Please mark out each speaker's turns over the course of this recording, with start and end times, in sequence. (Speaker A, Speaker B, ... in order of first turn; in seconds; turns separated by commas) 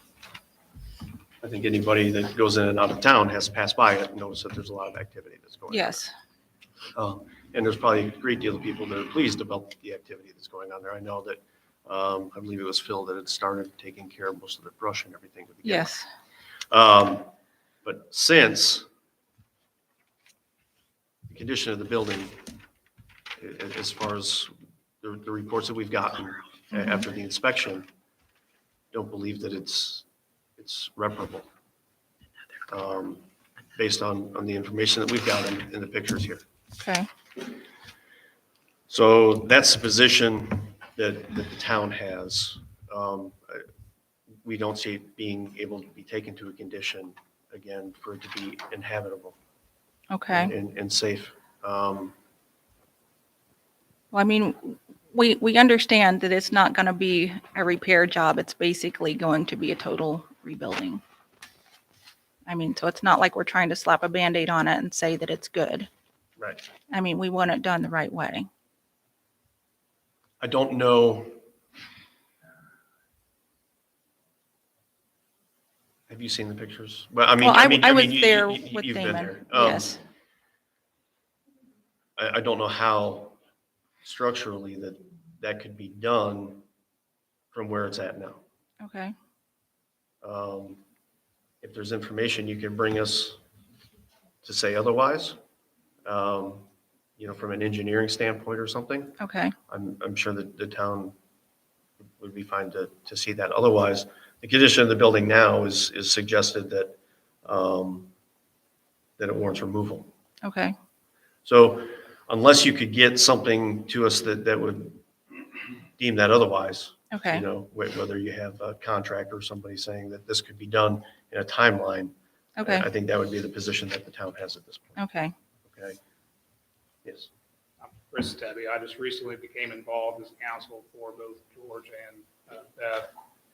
Speaker A: 1.4-6.0, Speaker B: 5.7-6.1, Speaker A: 7.0-15.9, Speaker B: 15.7-16.1, Speaker A: 16.7-17.3, Speaker A: 17.8-18.9, Speaker A: 21.3-22.4, Speaker A: 23.4-27.9, Speaker A: 28.9-30.1, Speaker A: 30.6-31.5, Speaker A: 32.7-36.4, Speaker B: 36.8-37.1, Speaker A: 38.9-43.7, Speaker A: 44.4-49.4, Speaker B: 50.1-50.5, Speaker A: 50.3-52.1, Speaker B: 54.1-61.0, Speaker B: 62.5-65.9, Speaker A: 66.4-66.6, Speaker B: 66.9-68.5, Speaker A: 70.4-71.4, Speaker A: 76.1-80.0, Speaker B: 77.4-80.0, Speaker A: 82.2-83.4, Speaker A: 84.0-86.6, Speaker A: 87.5-88.4, Speaker B: 88.8-89.1, Speaker A: 90.2-90.8, Speaker A: 91.6-93.4, Speaker A: 94.4-95.4, Speaker A: 96.1-99.2, Speaker B: 99.2-99.5, Speaker A: 99.7-101.2, Speaker A: 102.2-108.1, Speaker A: 109.2-110.1, Speaker B: 110.4-110.8, Speaker A: 111.5-115.0, Speaker A: 116.0-125.0, Speaker B: 117.1-117.5, Speaker B: 122.6-122.9, Speaker B: 125.0-125.3, Speaker A: 125.7-126.0, Speaker C: 127.8-133.1